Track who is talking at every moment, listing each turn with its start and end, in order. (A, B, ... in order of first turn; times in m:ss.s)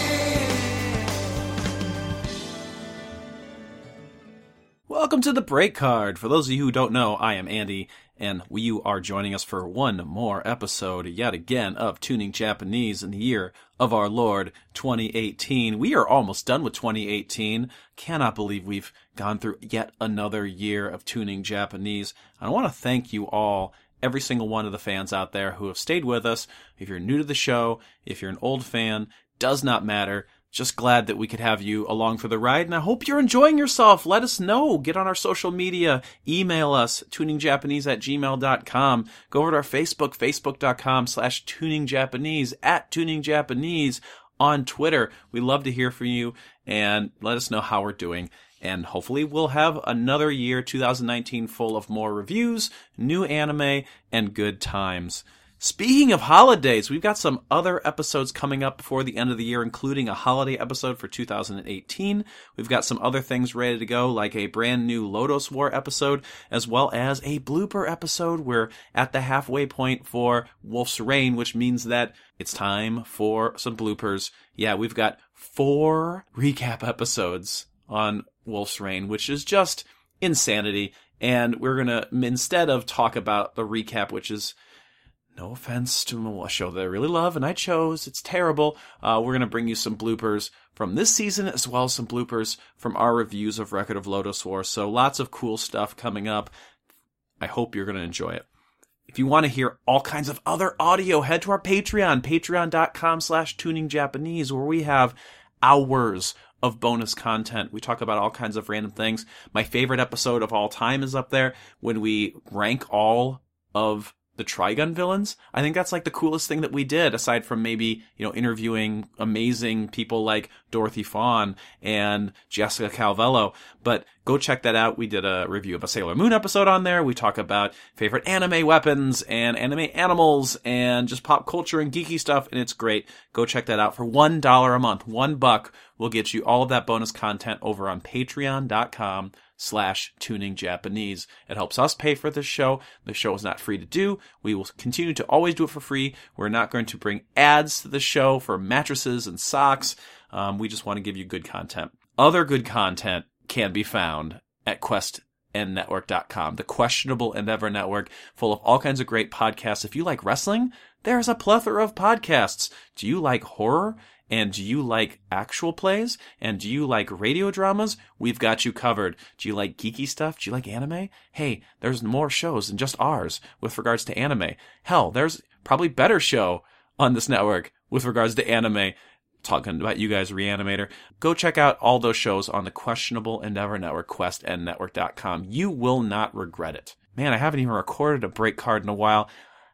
0:04.9-1:24.5 A
1:25.4-1:36.5 A
1:37.4-1:38.4 A
1:39.1-3:09.3 A